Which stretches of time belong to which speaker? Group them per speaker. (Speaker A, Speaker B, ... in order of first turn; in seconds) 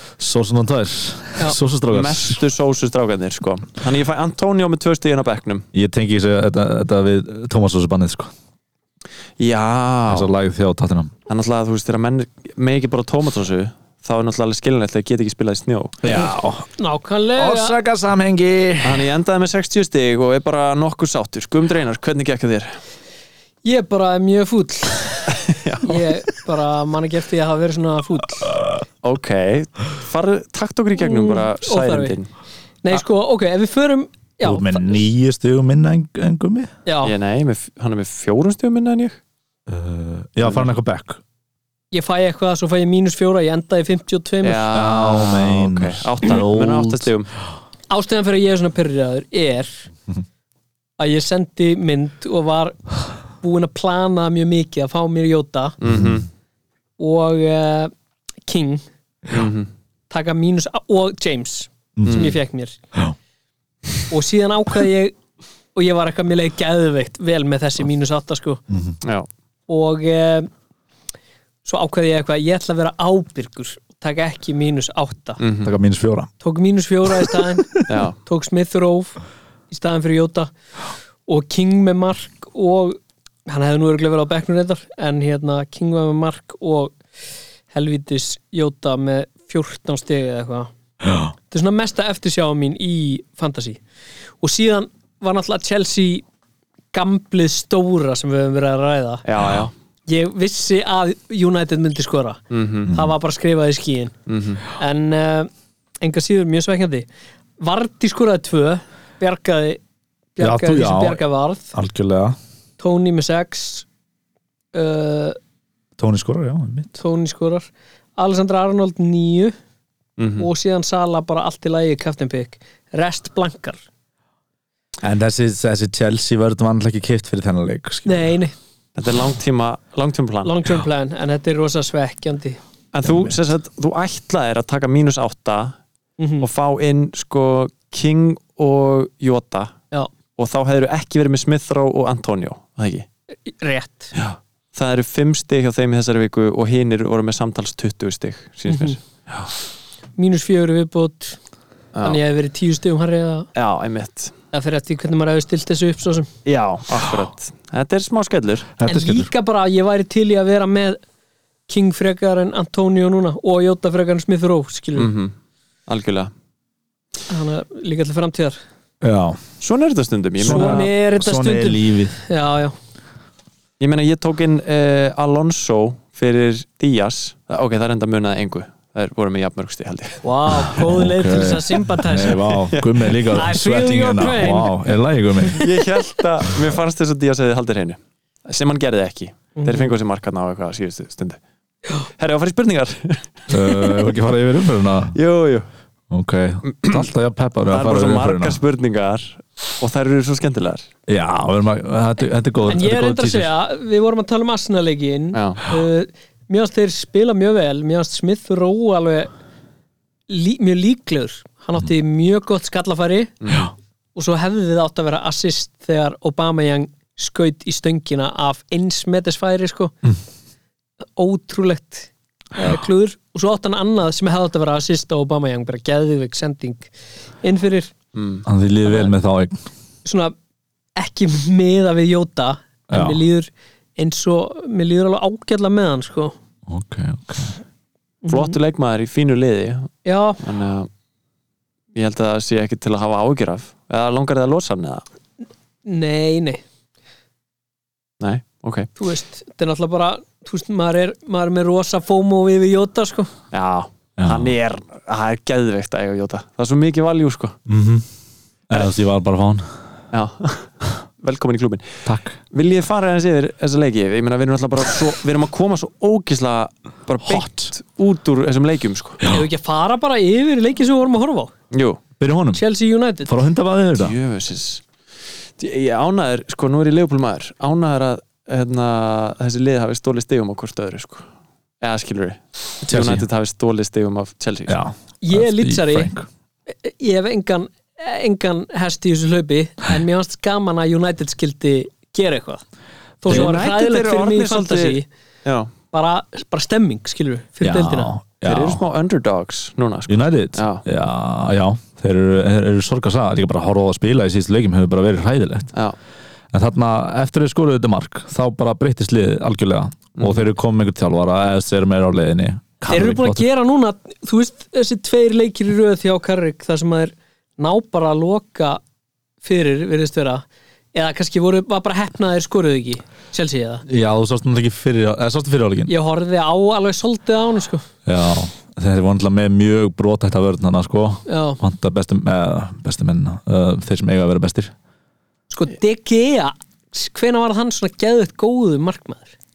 Speaker A: 0.2-2.4, 5.7-8.3, 10.1-11.1, 16.0-16.7, 17.4-19.1, 34.4-36.7, 39.7-41.2, 44.7-47.1, 62.0-62.2, 68.7-69.0, 75.6-76.3, 110.4-112.4, 116.0-116.9, 125.0-128.3, 133.1-133.4, 158.8-159.3, 169.0-169.4, 170.4-172.2, 180.5-185.7, 193.5-195.2, 196.1-198.6, 201.1-203.5, 228.4-229.7, 232.9-233.2, 236.7-237.6, 254.2-254.5, 257.7-258.1, 258.7-259.7, 262.1-262.4, 267.2-267.7, 269.2-269.5, 272.2-272.6, 273.3-274.2, 282.9-283.3, 284.7-286.3, 297.6-298.8, 300.1-305.7, 306.5-313.5, 323.9-325.9, 328.1-334.7
Speaker B: 1.9-5.7, 9.4-10.3, 11.3-16.1, 18.8-22.8, 25.5-26.0, 29.0-32.3, 37.0-39.2, 44.4-47.3, 55.8-56.3, 59.3-59.7, 62.0-62.4, 69.0-69.3, 75.4-75.7, 77.9-78.2, 99.2-99.7, 102.5-102.9, 104.3-104.7, 120.2-120.5, 129.0-130.6, 132.9-135.8, 136.4-139.8, 140.4-143.1, 144.2-149.0, 151.9-152.2, 153.6-154.3, 156.4-158.7, 165.0-165.3, 165.9-166.3, 169.6-170.9, 173.8-180.2, 182.6-183.2, 185.6-191.4, 191.9-194.0, 195.1-195.7, 196.7-197.1, 197.7-200.9, 205.3-205.6, 213.4-213.7, 228.1-228.4, 238.3-240.9, 241.9-245.0, 248.2-248.9, 253.5-257.6, 260.1-269.2, 271.7-272.0, 274.0-274.8, 275.6-281.3, 281.8-284.8, 293.3-295.7, 298.4-300.8, 310.2-310.5
Speaker C: 16.8-17.8, 23.6-28.5, 31.0-32.1, 32.8-35.0, 36.9-37.1, 41.9-44.6, 47.9-49.9, 51.0-52.8, 53.4-55.8, 57.0-57.9, 58.5-58.9, 60.1-62.8, 64.1-65.2, 65.8-68.6, 69.7-70.5, 71.6-75.4, 76.4-79.2, 79.7-80.5, 81.3-87.0, 87.7-90.7, 91.5-93.8, 94.4-96.2, 96.9-99.2, 100.1-104.2, 104.8-105.5, 106.0-107.1, 107.6-109.8, 110.4-111.7, 112.8-113.9, 114.7-115.4, 117.0-119.5, 120.4-123.8, 128.1-128.6, 130.4-132.6, 136.2-136.5, 143.5-144.1, 148.7-149.0, 150.2-151.4, 152.0-153.5, 154.5-156.3, 158.9-161.0, 161.7-165.1, 167.3-168.6, 170.5-172.8, 180.2-182.5, 183.3-184.7, 189.6-189.9, 202.7-209.3, 210.3-213.3, 214.2-219.9, 221.2-226.9, 227.4-227.9, 230.1-230.3, 231.0-236.3, 238.2-238.6, 240.1-240.4, 245.8-246.6, 249.0-253.3, 269.3-271.5, 272.5-273.3, 285.2-286.1, 286.7-292.6, 293.2-295.1, 295.9-298.1, 312.9-318.8, 319.4-323.9, 325.9-327.9, 331.3-331.6, 335.5-339.3